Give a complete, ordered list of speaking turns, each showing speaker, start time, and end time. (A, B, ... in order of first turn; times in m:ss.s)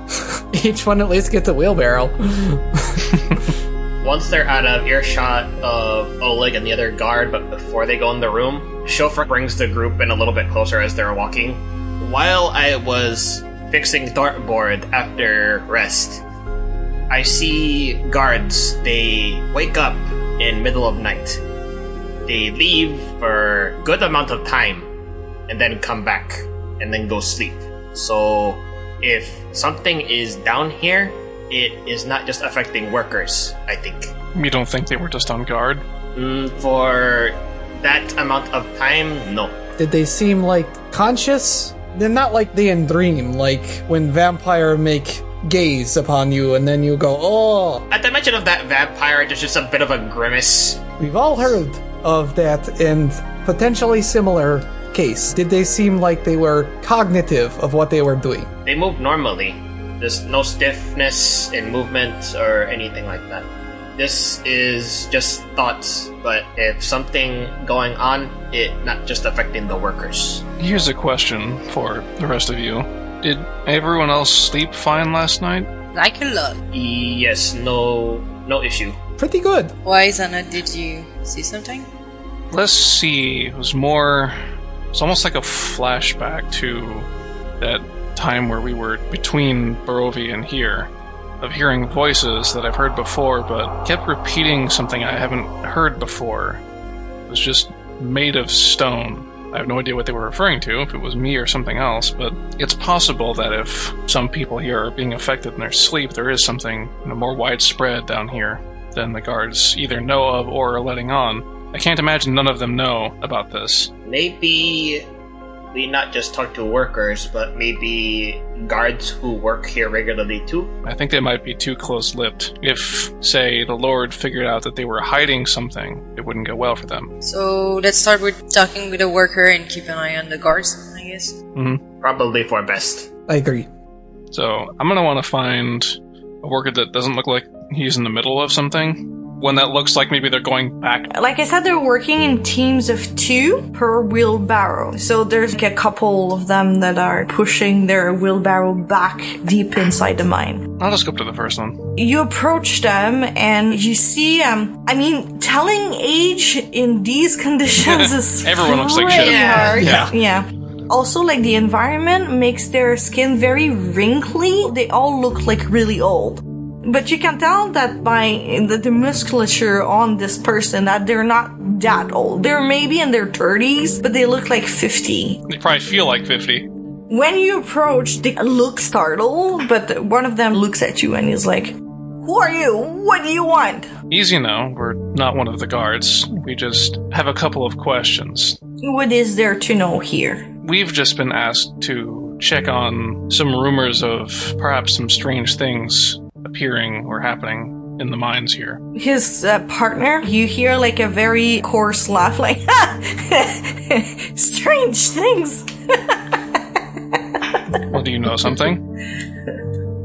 0:00.5-0:03.2 A
0:04.0-0:16.2 B
0:17.1-0:21.4 B
0:22.2-0:24.9 B
0:25.5-0:34.1 B
0:34.3-0:35.8 C
0:36.1-0:39.5 B
0:39.8-0:47.8 A
0:47.9-0:50.8 B
0:51.0-0:58.5 A
0:58.6-1:10.4 B
1:10.6-1:15.7 C
1:15.9-1:16.6 D
1:16.7-1:19.0 B
1:19.2-1:19.7 A
1:19.8-1:21.9 D
1:22.5-1:24.3 C
1:24.9-1:27.1 C
1:27.6-1:30.9 C
1:31.4-1:36.6 C
1:37.3-1:53.9 C
1:54.0-1:55.0 B
1:55.7-2:00.7 B
2:00.8-2:07.1 C
2:07.2-2:11.4 D
2:11.5-2:11.8 C
2:12.0-2:13.1 B
2:13.3-2:13.7 A
2:14.3-2:21.1 C
2:21.1-2:30.7 E
2:30.8-2:31.8 C
2:32.0-2:55.4 E
2:37.8-2:40.1 C
2:39.1-2:39.8 B
2:39.8-2:40.1 A
2:55.5-2:56.7 C
2:57.1-3:03.9 E
3:04.1-3:08.6 C
3:08.8-3:10.4 E
3:10.6-3:18.8 C
3:19.0-3:26.6 E
3:27.9-3:28.8 C